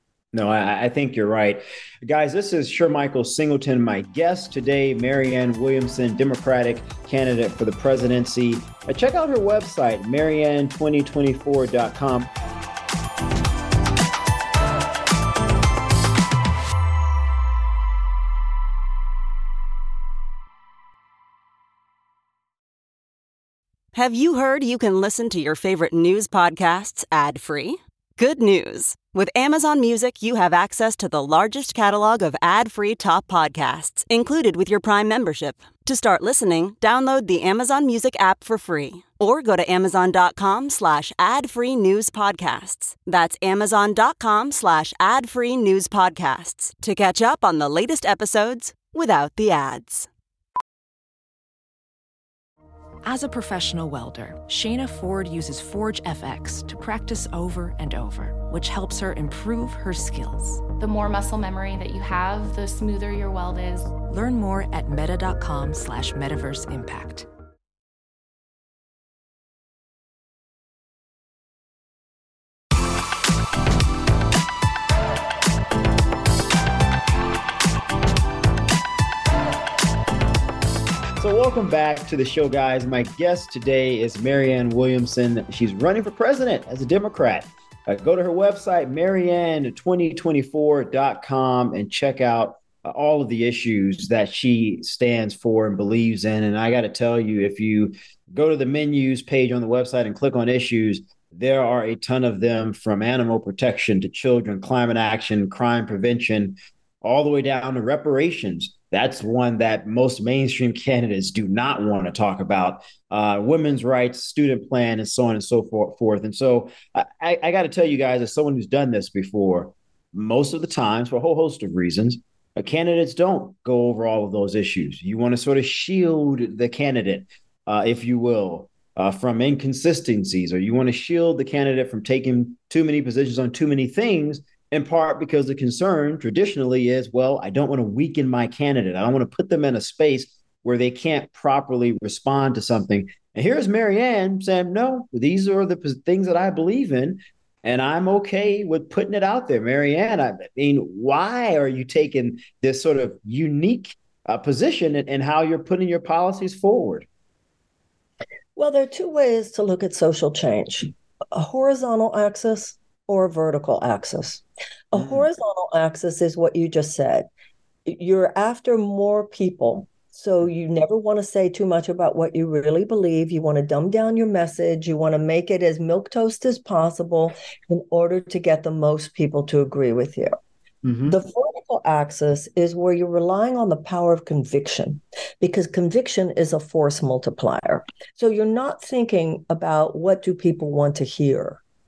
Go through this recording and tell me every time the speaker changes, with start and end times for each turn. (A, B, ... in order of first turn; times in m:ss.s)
0:00.3-0:12.3 A
0:23.9-0:50.1 B
0:53.0-1:00.6 C
1:00.8-1:03.9 D
1:04.0-1:07.3 C
1:21.2-2:37.1 A
2:38.6-2:47.3 E
2:44.9-2:45.3 A
2:47.9-3:00.4 E
3:00.8-3:01.2 A
3:01.1-3:11.6 E